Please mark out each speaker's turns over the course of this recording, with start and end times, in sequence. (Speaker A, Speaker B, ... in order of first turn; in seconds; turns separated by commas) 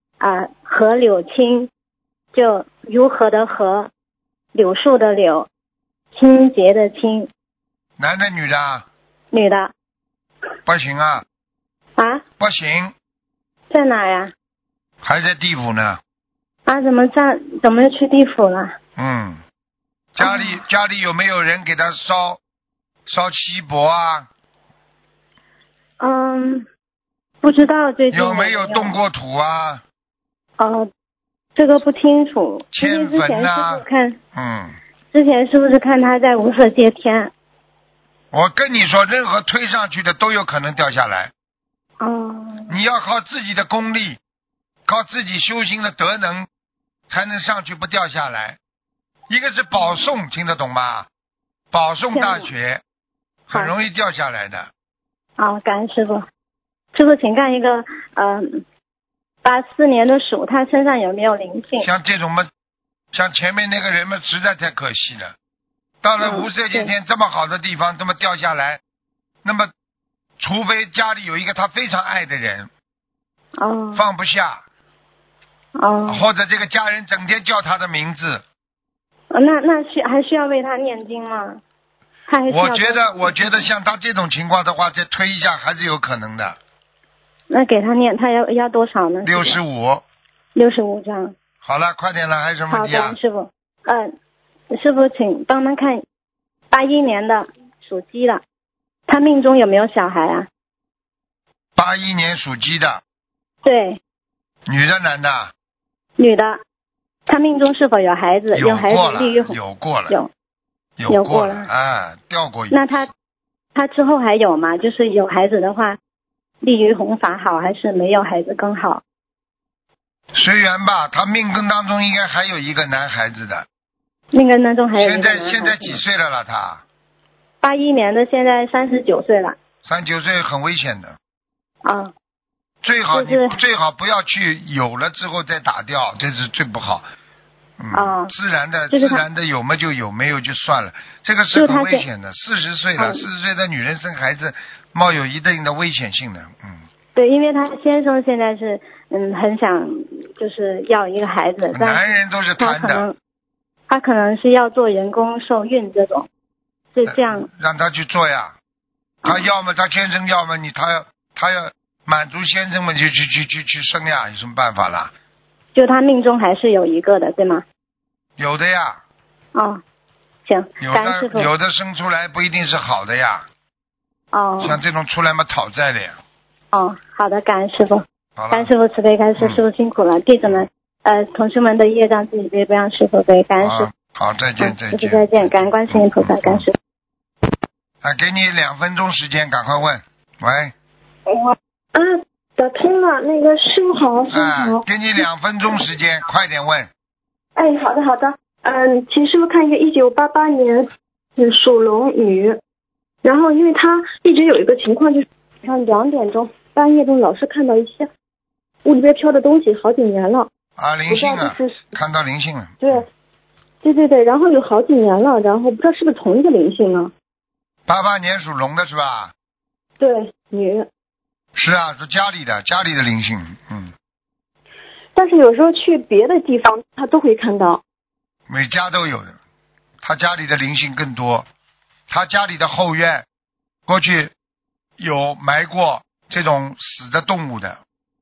Speaker A: 0.2-1.7, Speaker A: 2.3-3.9, Speaker A: 4.5-5.5, Speaker A: 6.1-7.3, Speaker B: 8.0-8.8, Speaker A: 9.3-9.7, Speaker B: 10.7-11.2, Speaker A: 12.0-12.2, Speaker B: 12.4-12.9, Speaker A: 13.7-14.3, Speaker B: 15.0-16.0, Speaker A: 16.6-18.8, Speaker B: 19.0-19.4, Speaker B: 20.1-22.4, Speaker A: 20.2-20.6, Speaker B: 23.1-24.3, Speaker A: 26.0-26.6, Speaker A: 27.4-29.0, Speaker B: 28.1-29.8, Speaker A: 30.6-30.9, Speaker A: 31.6-34.2, Speaker B: 32.7-33.8, Speaker B: 34.3-34.8, Speaker A: 35.1-37.3, Speaker B: 38.3-41.3, Speaker A: 42.0-42.8, Speaker B: 42.7-44.2, Speaker B: 44.9-46.5, Speaker B: 47.1-48.6, Speaker B: 49.3-51.1, Speaker B: 51.7-52.8, Speaker A: 52.1-52.5, Speaker B: 53.5-54.7, Speaker A: 55.4-56.2, Speaker A: 56.9-58.6, Speaker A: 59.4-61.9, Speaker B: 61.8-62.5, Speaker B: 63.1-65.3, Speaker B: 66.0-68.8, Speaker A: 66.2-66.9, Speaker B: 69.4-69.7, Speaker B: 70.4-72.7, Speaker A: 73.6-74.0, Speaker B: 73.9-74.6, Speaker A: 75.8-76.2, Speaker B: 76.1-78.4, Speaker A: 79.3-81.6, Speaker A: 82.3-83.7, Speaker B: 82.5-86.6, Speaker A: 87.5-89.6, Speaker B: 89.2-90.0, Speaker A: 90.5-91.3, Speaker B: 91.6-93.2, Speaker A: 92.7-94.1, Speaker A: 94.7-96.0, Speaker A: 96.7-98.4, Speaker A: 99.1-100.5, Speaker B: 101.8-103.0, Speaker A: 103.6-104.0, Speaker B: 104.7-105.5, Speaker A: 106.2-106.6, Speaker A: 107.3-109.6, Speaker B: 108.5-110.1, Speaker B: 111.0-113.0, Speaker A: 111.1-111.7, Speaker A: 112.7-113.1, Speaker A: 113.7-116.0, Speaker A: 116.6-119.0, Speaker B: 120.3-123.7, Speaker A: 124.3-126.0, Speaker B: 124.9-126.8, Speaker A: 127.6-129.6, Speaker B: 129.8-131.2, Speaker A: 131.8-132.1, Speaker B: 132.8-137.0, Speaker A: 133.1-133.6, Speaker B: 137.8-146.8, Speaker A: 137.9-138.3, Speaker A: 138.9-139.2, Speaker A: 141.5-142.0, Speaker A: 143.0-143.2, Speaker A: 147.1-153.1, Speaker B: 151.7-153.0, Speaker A: 153.9-156.3, Speaker A: 156.9-157.5, Speaker B: 157.1-158.5, Speaker B: 159.2-165.1, Speaker A: 165.7-167.6, Speaker B: 168.4-169.0, Speaker A: 169.5-169.8, Speaker A: 170.4-171.5, Speaker B: 170.8-173.4, Speaker A: 174.3-174.8, Speaker B: 174.6-176.2, Speaker A: 176.7-183.9, Speaker B: 178.3-178.7, Speaker B: 183.6-186.6, Speaker A: 184.6-186.7, Speaker B: 188.0-190.7, Speaker C: 191.3-194.8, Speaker B: 194.3-196.9, Speaker C: 197.6-202.6, Speaker C: 203.2-208.1, Speaker C: 208.8-210.5, Speaker B: 210.8-213.0, Speaker C: 211.1-211.9, Speaker C: 212.8-213.1, Speaker C: 213.8-217.1, Speaker B: 217.9-219.3, Speaker C: 220.0-220.9, Speaker B: 221.6-223.9, Speaker C: 225.1-227.8, Speaker B: 228.5-229.3, Speaker B: 230.0-231.4, Speaker B: 232.1-233.2, Speaker B: 233.9-234.3, Speaker B: 235.0-237.8